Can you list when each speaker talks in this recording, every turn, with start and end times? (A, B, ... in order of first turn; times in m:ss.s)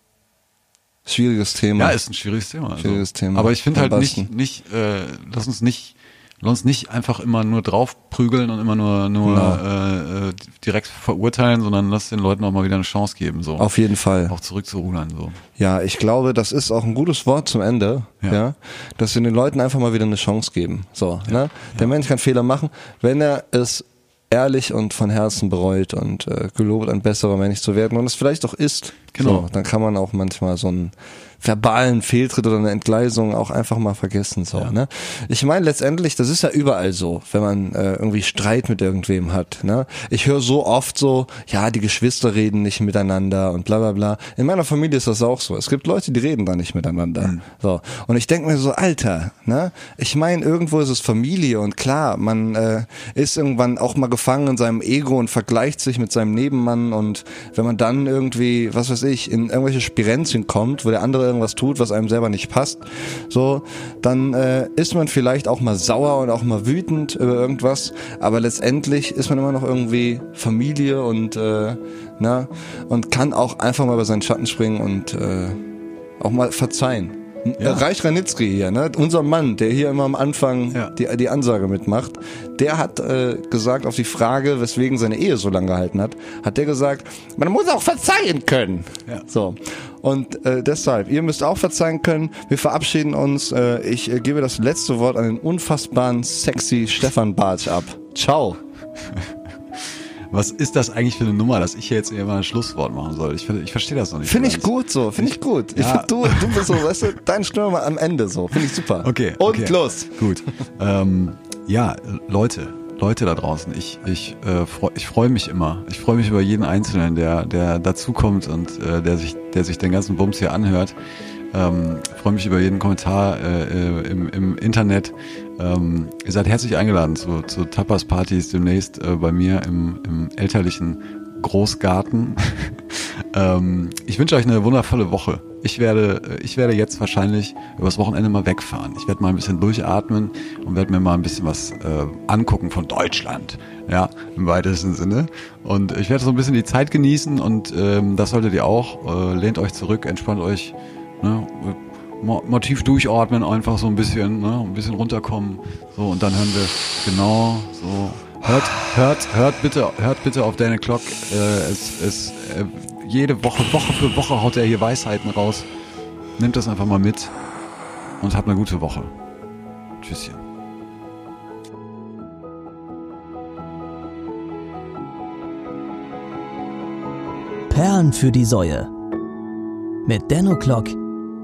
0:01.0-0:02.0 A
0:01.8-0:13.7 B
0:02.8-0:04.3 A
0:09.2-0:09.6 A
0:13.6-0:14.4 A
0:14.3-0:15.4 B
0:15.6-1:15.6 A
0:21.3-0:21.9 B
0:29.1-0:29.4 B
1:16.2-1:38.6 A
1:17.6-1:17.8 B
1:40.3-1:46.9 B
1:44.2-1:50.1 A
1:49.0-2:00.9 B
2:01.5-2:45.7 B
2:46.4-2:47.3 B
2:48.2-2:49.1 B
2:50.0-2:50.4 B
2:57.7-2:58.9 C
3:00.0-3:01.0 C